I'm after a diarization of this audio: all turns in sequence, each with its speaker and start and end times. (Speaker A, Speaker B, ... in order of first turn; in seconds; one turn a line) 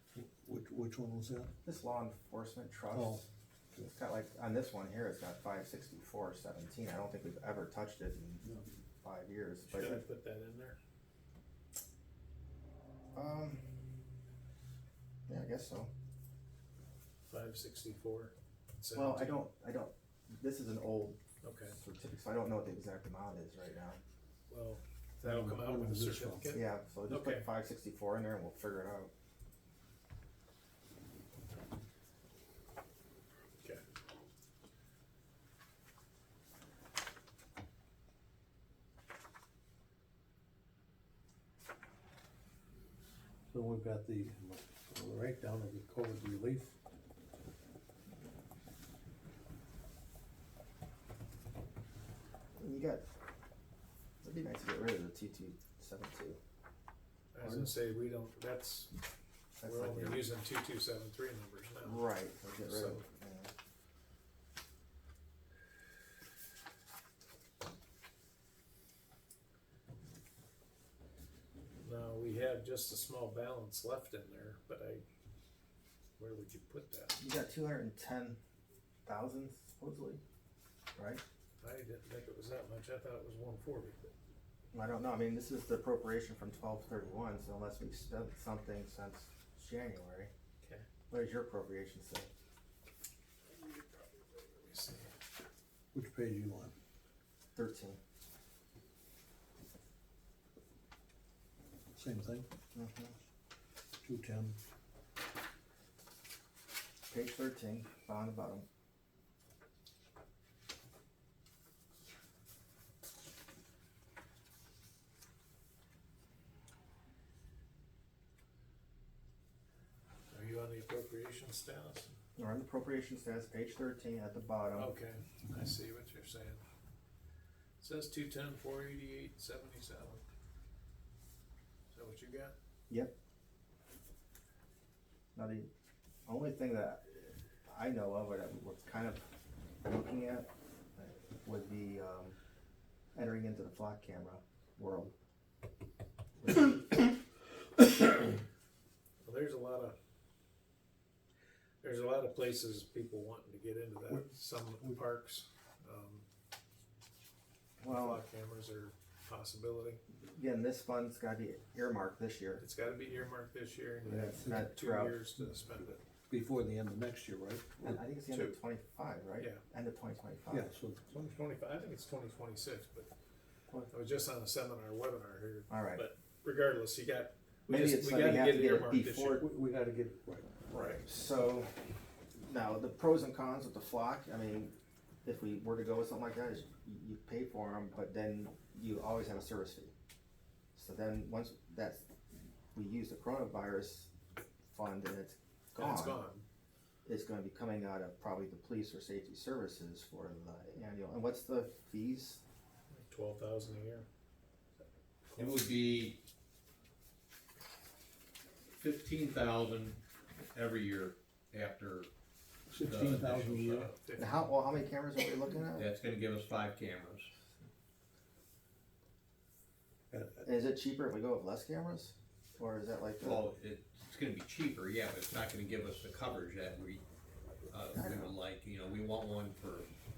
Speaker A: 0.1-1.5
Speaker B: 1.6-3.2
Speaker A: 2.9-3.2
Speaker B: 3.8-10.0
Speaker C: 9.7-10.8
Speaker B: 13.2-13.6
Speaker B: 15.3-15.9
Speaker C: 17.3-19.4
Speaker B: 18.9-21.2
Speaker C: 21.4-21.8
Speaker B: 21.7-24.0
Speaker C: 24.5-27.5
Speaker A: 25.2-26.6
Speaker B: 26.5-29.1
Speaker A: 43.5-46.8
Speaker B: 52.6-53.0
Speaker B: 54.2-56.4
Speaker C: 57.3-58.9
Speaker B: 59.6-60.2
Speaker C: 59.6-62.1
Speaker B: 61.8-63.5
Speaker C: 62.7-63.0
Speaker C: 71.8-75.0
Speaker C: 76.2-77.2
Speaker B: 77.2-78.4
Speaker B: 79.1-80.2
Speaker B: 81.0-81.2
Speaker C: 81.6-84.1
Speaker B: 84.7-90.3
Speaker C: 90.6-90.9
Speaker B: 91.1-92.3
Speaker C: 93.5-95.1
Speaker A: 95.9-96.7
Speaker B: 97.6-98.0
Speaker A: 102.0-102.5
Speaker B: 102.7-103.1
Speaker A: 104.0-104.6
Speaker B: 107.1-108.7
Speaker C: 120.3-122.1
Speaker B: 122.4-124.9
Speaker C: 124.8-126.6
Speaker C: 127.8-130.2
Speaker C: 131.9-132.6
Speaker B: 135.3-135.7
Speaker B: 136.3-139.2
Speaker B: 139.8-142.4
Speaker B: 143.2-145.1
Speaker B: 146.4-146.9
Speaker C: 149.2-149.9
Speaker C: 151.8-156.2
Speaker B: 157.8-158.2
Speaker C: 157.9-160.0
Speaker B: 160.3-162.6
Speaker C: 162.6-166.0
Speaker B: 164.1-165.2
Speaker A: 164.3-164.6
Speaker A: 166.1-168.0
Speaker B: 167.8-170.7
Speaker C: 168.3-168.6
Speaker A: 170.5-171.3
Speaker C: 171.1-173.1
Speaker C: 173.9-179.4
Speaker B: 175.7-176.1
Speaker B: 177.7-179.4
Speaker A: 179.4-180.5
Speaker C: 180.7-181.0
Speaker B: 180.7-181.7
Speaker B: 182.3-184.7
Speaker B: 185.2-189.9
Speaker B: 190.8-192.0
Speaker B: 192.7-194.1
Speaker B: 194.7-196.2
Speaker C: 195.8-196.4
Speaker B: 197.1-202.4
Speaker C: 202.9-204.1
Speaker C: 205.3-205.7
Speaker D: 205.4-206.2
Speaker D: 208.8-212.1
Speaker A: 212.7-213.9
Speaker D: 212.8-213.5
Speaker C: 213.3-214.5
Speaker B: 214.2-215.9
Speaker D: 215.7-217.3
Speaker A: 220.1-220.5
Speaker B: 220.4-223.4
Speaker D: 223.2-227.0
Speaker D: 227.7-229.9
Speaker B: 227.9-228.3